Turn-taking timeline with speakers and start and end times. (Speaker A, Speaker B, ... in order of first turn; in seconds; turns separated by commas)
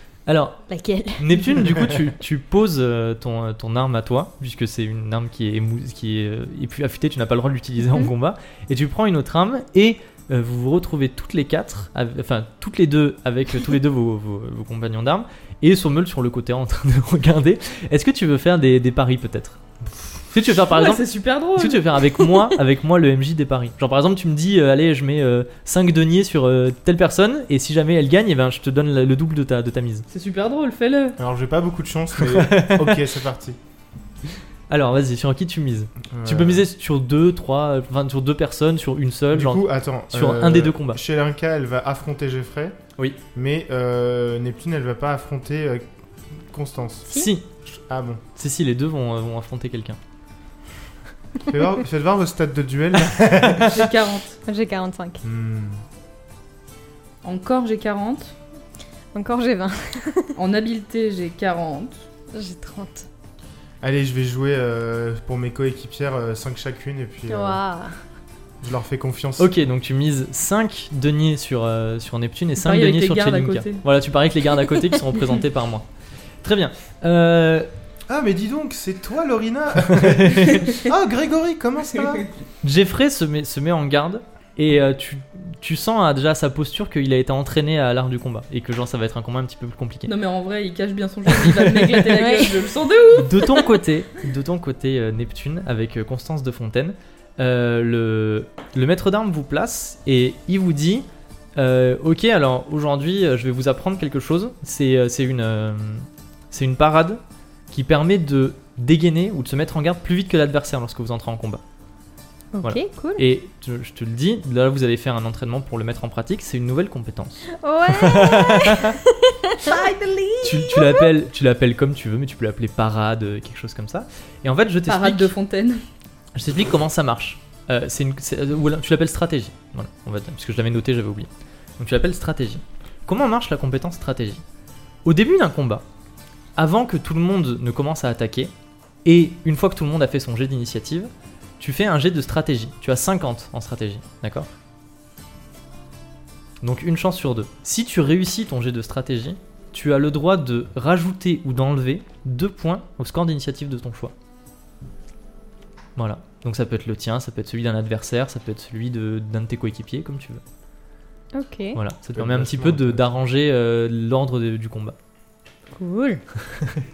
Speaker A: 0.3-0.6, Speaker B: 0.7-1.6, Speaker A: 1.2-19.6, Speaker A: 20.2-30.1, Speaker C: 20.5-22.0, Speaker C: 30.1-31.2, Speaker D: 31.2-33.6, Speaker A: 32.2-33.0, Speaker A: 34.7-41.0, Speaker D: 36.1-36.6, Speaker D: 39.3-42.8, Speaker D: 43.3-47.1, Speaker A: 47.1-47.4, Speaker D: 47.7-48.2, Speaker A: 48.4-50.0, Speaker D: 51.4-53.9, Speaker C: 53.6-54.4, Speaker B: 54.5-55.2, Speaker D: 55.2-55.8, Speaker C: 57.2-58.3, Speaker B: 59.1-60.4, Speaker C: 60.3-62.0, Speaker B: 62.3-63.1, Speaker D: 63.8-67.6, Speaker B: 67.3-68.0, Speaker D: 68.6-69.5, Speaker A: 69.4-75.9, Speaker C: 72.6-73.8, Speaker A: 76.4-77.7, Speaker D: 78.1-82.3, Speaker A: 79.9-80.7, Speaker A: 82.6-90.1, Speaker C: 90.1-93.7, Speaker B: 92.0-92.7, Speaker A: 93.1-101.0, Speaker A: 101.6-111.6, Speaker B: 112.5-113.2, Speaker A: 112.6-119.0, Speaker B: 117.5-119.8, Speaker C: 119.6-120.6, Speaker A: 120.4-125.3, Speaker B: 120.7-121.1, Speaker C: 124.9-125.8, Speaker A: 126.3-134.4, Speaker A: 135.0-135.8, Speaker A: 136.6-138.5, Speaker A: 139.0-144.5, Speaker A: 146.6-154.1, Speaker A: 155.9-160.4, Speaker B: 161.3-161.8, Speaker A: 161.7-164.9, Speaker D: 162.1-163.1, Speaker B: 165.7-166.2